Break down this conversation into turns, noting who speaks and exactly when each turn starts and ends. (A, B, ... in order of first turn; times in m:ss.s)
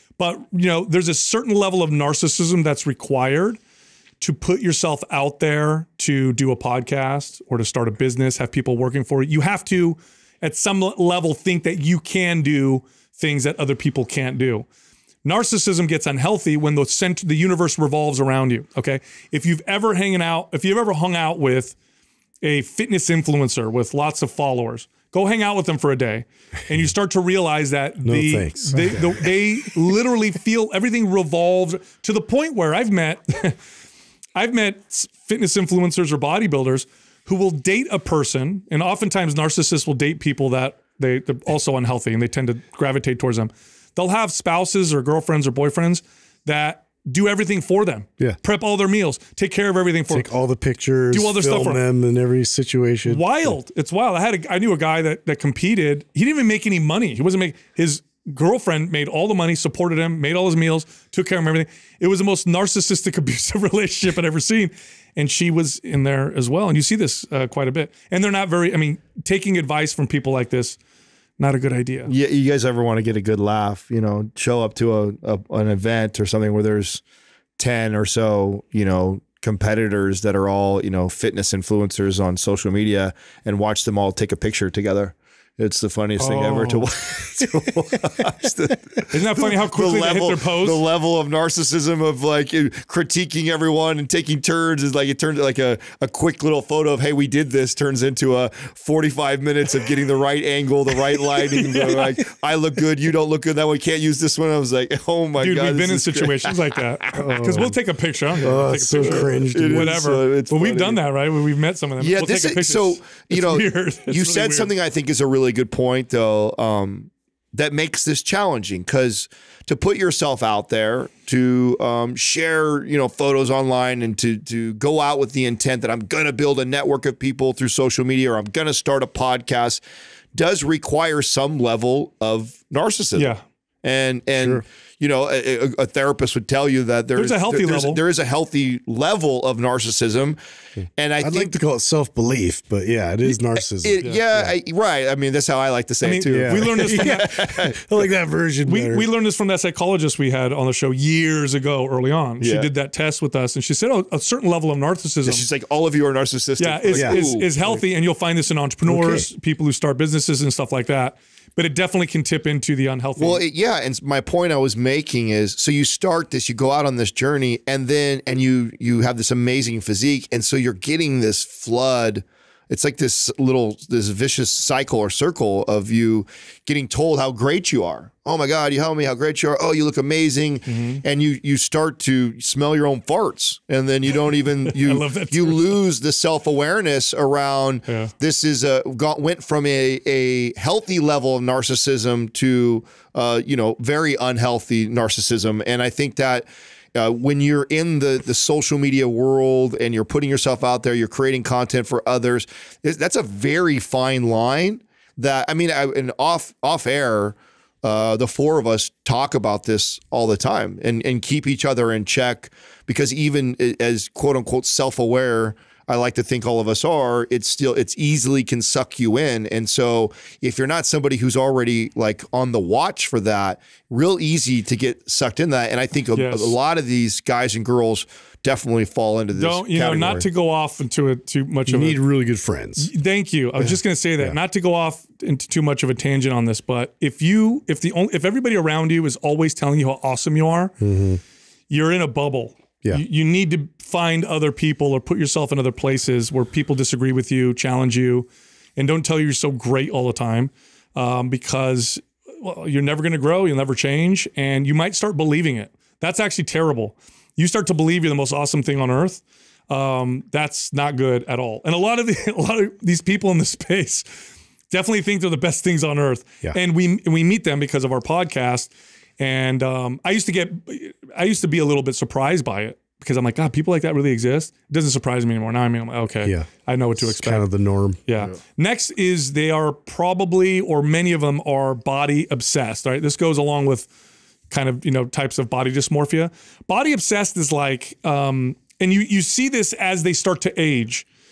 0:00.2-0:03.6 A
0:04.2-0:14.7 A
0:15.2-0:21.8 A
0:22.4-0:33.6 A
0:28.0-0:29.3 B
0:34.4-0:50.3 A
0:50.1-0:53.5 B
0:51.1-0:51.8 A
0:53.0-1:10.8 A
1:11.4-1:12.1 A
1:12.0-1:17.0 C
1:17.6-1:47.3 C
1:26.2-1:26.8 A
1:29.1-1:30.8 A
1:41.4-1:42.2 A
1:45.4-1:54.7 A
1:47.1-1:47.7 B
1:48.4-1:50.0 B
1:49.0-1:51.0 C
1:52.0-2:09.8 C
2:10.3-2:13.3 C
2:13.1-2:13.4 A
2:13.8-2:20.4 C
2:17.1-2:18.0 A
2:21.0-2:21.6 C
2:21.2-2:24.5 B
2:23.6-2:27.8 C
2:26.0-2:27.3 A
2:26.3-2:29.1 B
2:28.6-2:35.4 A
2:32.4-2:32.7 C
2:35.2-2:37.8 C
2:36.6-2:43.4 A
2:38.8-2:39.3 B
2:43.2-3:50.2 C
3:00.7-3:01.0 A
3:04.6-3:05.8 A
3:07.9-3:08.1 A
3:46.1-3:46.6 A
3:49.4-3:52.0 A
3:51.7-3:52.9 B
3:52.8-4:00.7 A
3:53.6-3:54.4 B
4:00.8-4:01.2 B
4:01.7-4:24.1 A
4:24.7-4:37.4 A
4:36.2-4:38.0 B
4:38.0-4:43.9 A
4:44.5-4:51.0 A